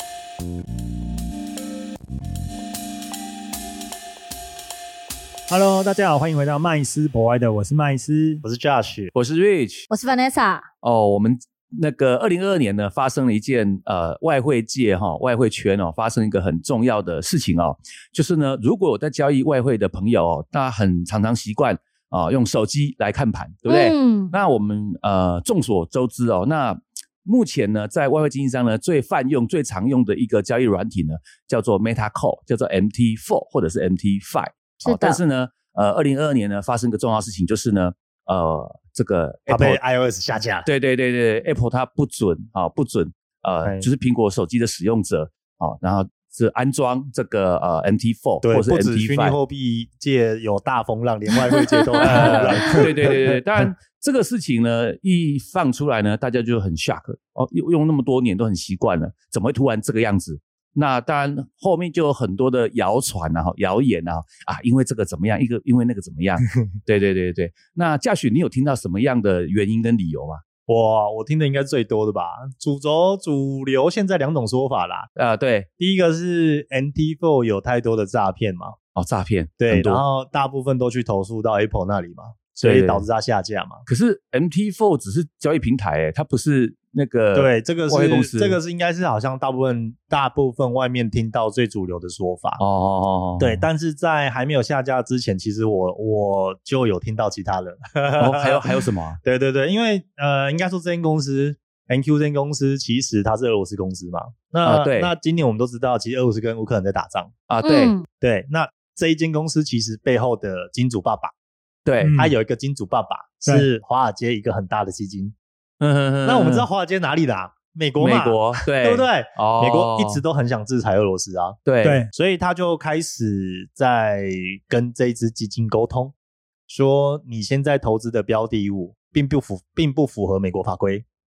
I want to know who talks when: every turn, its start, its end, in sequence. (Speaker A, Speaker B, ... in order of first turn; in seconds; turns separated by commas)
Speaker A: 5.5-8.4, Speaker B: 8.4-9.1, Speaker C: 9.1-9.9, Speaker D: 9.9-10.7, Speaker C: 10.8-39.8, Speaker D: 23.7-24.4, Speaker D: 34.8-35.2, Speaker B: 39.5-40.7, Speaker C: 40.6-49.4, Speaker B: 43.6-43.9, Speaker B: 48.4-53.4, Speaker D: 52.0-52.9, Speaker C: 52.0-70.4, Speaker B: 70.7-75.1, Speaker C: 75.2-75.7, Speaker B: 75.8-78.8, Speaker C: 79.0-80.0, Speaker B: 79.6-83.8, Speaker C: 82.6-83.1, Speaker C: 83.9-88.6, Speaker B: 87.3-92.6, Speaker C: 92.6-93.7, Speaker B: 93.4-107.3, Speaker C: 98.2-99.2, Speaker C: 104.6-105.1, Speaker C: 107.5-108.0, Speaker D: 107.6-108.1, Speaker B: 108.2-111.3, Speaker C: 111.8-112.2, Speaker A: 112.0-112.4, Speaker B: 112.2-115.3, Speaker C: 115.8-116.7, Speaker B: 116.2-121.6, Speaker C: 118.0-120.2, Speaker C: 121.7-122.0, Speaker A: 121.8-122.1, Speaker B: 122.1-126.1, Speaker B: 126.7-131.1